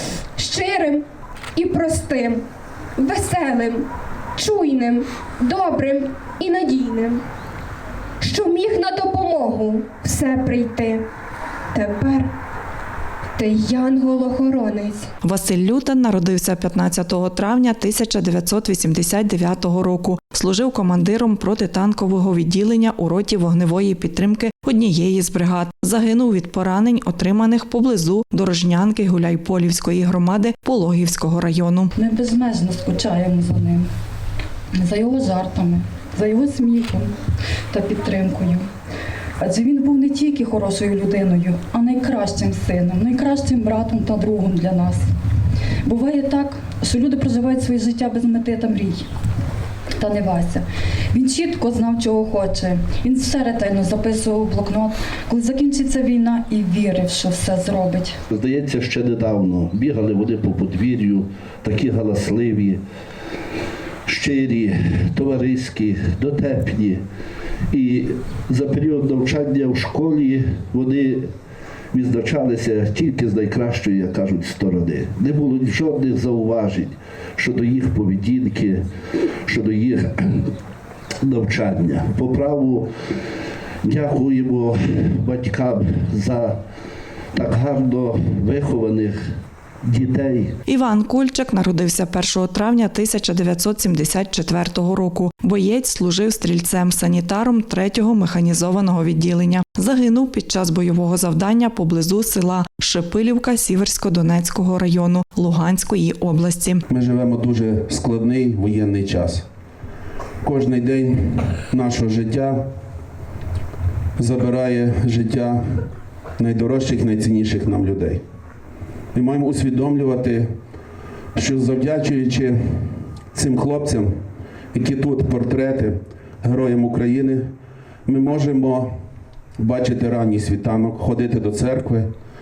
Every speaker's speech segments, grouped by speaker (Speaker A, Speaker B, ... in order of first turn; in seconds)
Speaker A: 0.4-2.4, 3.0-7.2, 8.2-11.1, 11.7-12.3, 13.4-15.1
Speaker B: 15.2-31.9, 90.7-106.8
Speaker C: 32.0-33.9, 34.7-37.1, 37.7-38.6, 39.4-45.0, 45.8-49.1, 50.0-58.2
Speaker D: 58.3-62.8, 64.0-67.0, 67.7-71.3, 71.9-78.9, 79.4-80.5, 81.2-82.9, 83.8-86.6, 87.3-90.6
Speaker E: 106.9-109.5, 110.4-112.7, 114.2-115.9, 116.4-118.2, 119.1-120.5, 121.3-127.5, 128.1-128.9, 129.6-132.1